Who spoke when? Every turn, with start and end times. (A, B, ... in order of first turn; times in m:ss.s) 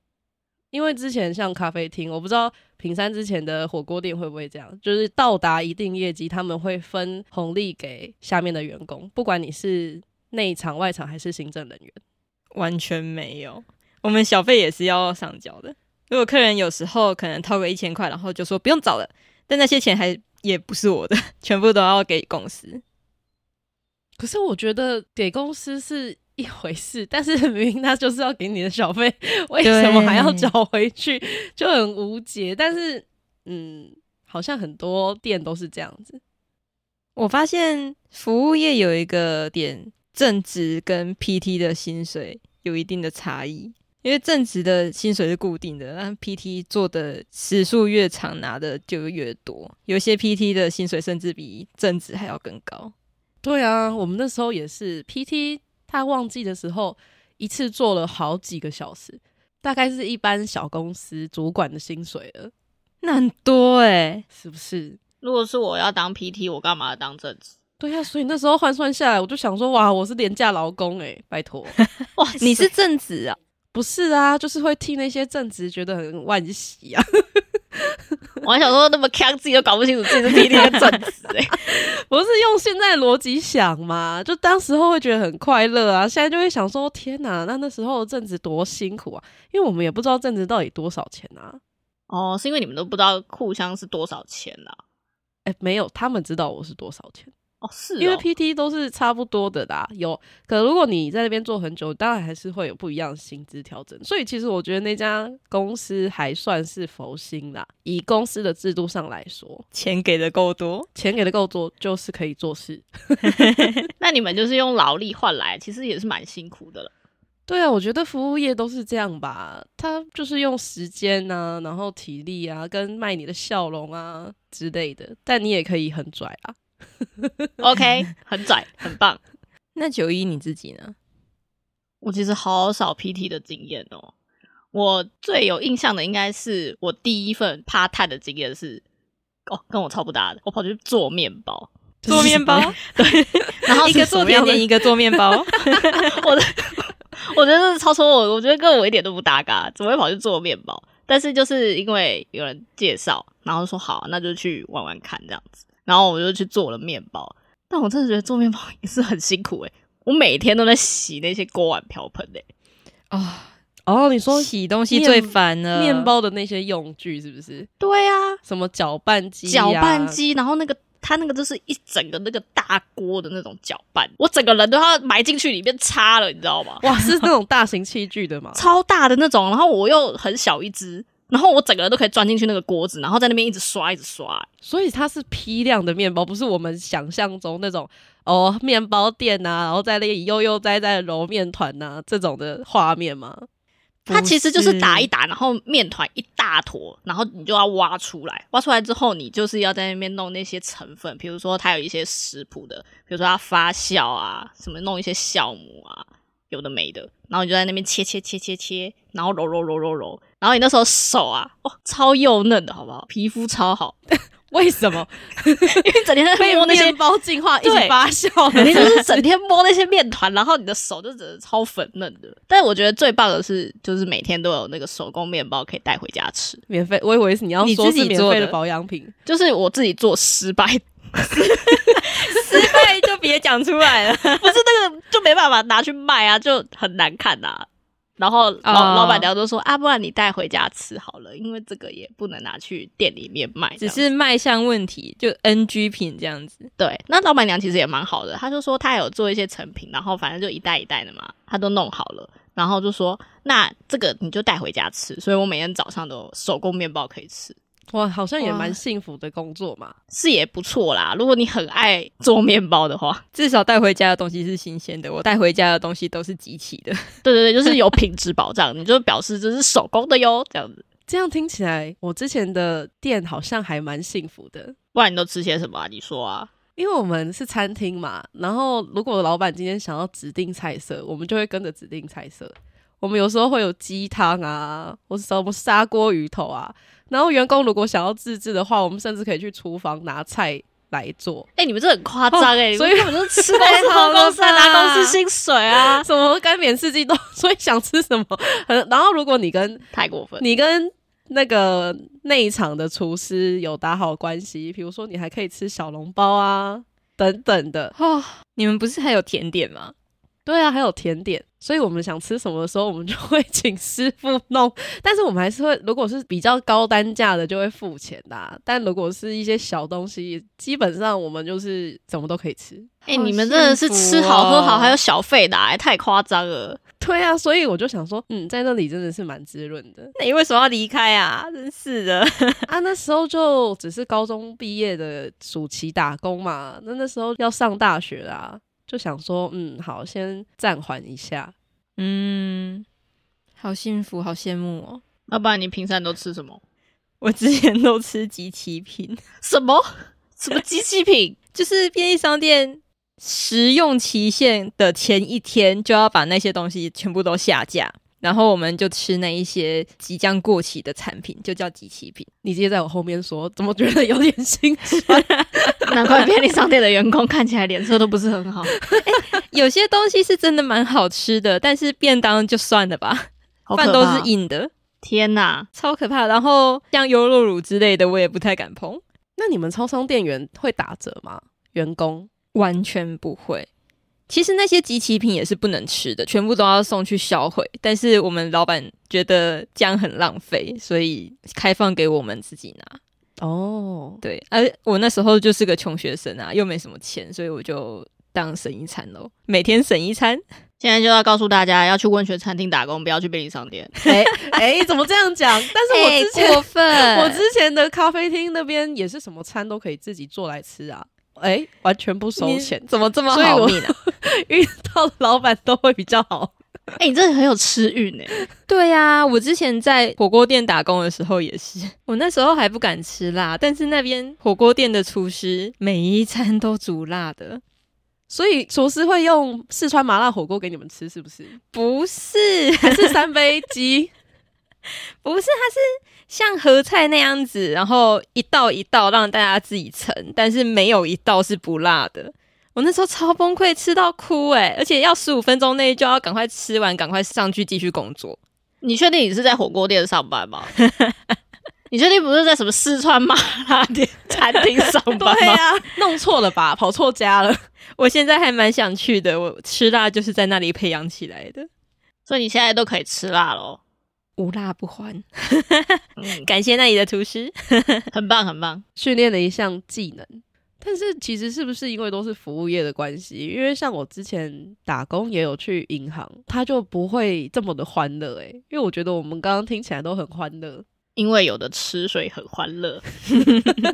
0:00.7-0:12.0 A
0:12.5-0:22.8 B
0:24.2-0:36.2 A
0:29.6-0:30.5 B
0:37.2-0:52.9 B
0:53.4-1:02.5 A
1:03.0-1:04.2 B
1:04.3-1:05.0 A
1:05.2-1:07.5 C
1:07.8-1:11.8 A
1:12.2-1:12.7 C
1:12.4-1:13.4 B
1:13.7-1:18.0 A
1:18.4-1:21.6 C
1:20.3-1:20.6 A
1:21.6-1:31.6 A
1:32.1-1:34.8 C
1:35.4-1:37.3 A
1:37.6-1:38.2 C
1:38.0-1:49.6 A
1:49.7-1:50.9 B
1:50.9-1:53.5 A
1:53.2-1:53.8 B
1:54.0-1:56.9 C
1:57.5-2:06.6 A
2:07.2-2:07.5 A
2:07.6-2:09.2 C
2:09.7-2:10.9 B
2:12.0-2:14.1 C
2:14.7-2:18.8 C
2:19.5-2:21.7 C
2:22.0-2:22.8 A
2:22.1-2:26.0 B
2:23.0-2:24.7 C
2:26.0-2:42.4 C
2:43.1-2:43.5 B
2:43.9-2:47.7 A
2:44.3-2:46.1 B
2:47.8-2:48.4 C
2:48.4-2:50.2 A
2:49.4-2:56.9 C
2:56.8-2:58.6 A
2:58.5-3:04.5 C
3:04.6-3:13.5 A
3:14.0-3:15.1 B
3:14.1-3:34.0 C
3:34.5-3:39.2 A
3:35.7-3:37.0 C
3:37.6-3:38.0 C
3:38.6-3:46.6 C
3:46.7-3:49.1 A
3:47.6-3:48.6 B
3:49.2-3:52.8 C
3:52.0-3:54.6 B
3:54.4-3:57.7 C
3:58.2-4:04.0 C
3:58.6-3:59.3 B
4:03.8-4:06.7 B
4:06.8-4:17.6 C
4:17.9-4:19.9 A
4:18.4-4:18.7 B
4:20.1-4:23.2 C
4:23.3-4:27.0 B
4:27.2-4:30.8 C
4:31.1-4:34.8 A
4:34.9-4:36.5 C
4:36.8-4:51.5 A
4:51.6-4:56.0 C
4:52.3-4:53.7 A
4:53.6-4:55.2 B
4:55.8-4:59.8 A
4:59.9-5:00.5 C
5:00.4-5:07.9 A
5:07.9-5:09.9 B
5:10.4-5:22.9 A
5:23.1-5:25.0 B
5:23.1-5:26.8 C
5:27.0-5:30.1 A
5:30.2-5:32.7 B
5:32.7-5:41.5 A
5:42.0-5:42.8 B
5:43.6-5:45.0 B
5:45.3-5:46.6 C
5:47.2-5:49.2 B
5:49.4-5:51.4 C
5:51.5-6:02.3 B
6:02.4-6:06.1 A
6:05.0-6:05.8 B
6:05.9-6:08.8 C
6:09.0-6:14.7 B
6:13.7-6:14.3 C
6:15.0-6:15.7 C
6:15.7-6:19.0 B
6:19.4-6:22.3 A
6:22.5-6:23.7 B
6:24.3-6:33.0 B
6:33.4-6:34.2 A
6:34.2-6:40.4 B
6:40.8-6:44.0 C
6:44.0-6:56.5 A
6:45.9-6:47.4 B
6:52.4-6:53.9 B
6:57.0-6:58.4 C
6:58.7-7:07.6 B
7:08.3-7:11.6 A
7:11.6-7:13.1 B
7:12.8-7:14.1 A
7:15.2-7:28.4 B
7:28.8-7:30.7 C
7:30.8-7:31.1 B
7:31.9-7:35.6 C
7:35.1-7:37.6 A
7:38.0-7:41.7 B
7:42.3-7:43.8 C
7:44.4-7:48.1 B
7:46.2-7:46.5 C
7:48.1-7:48.8 C
7:49.0-8:00.8 A
8:01.2-8:03.1 C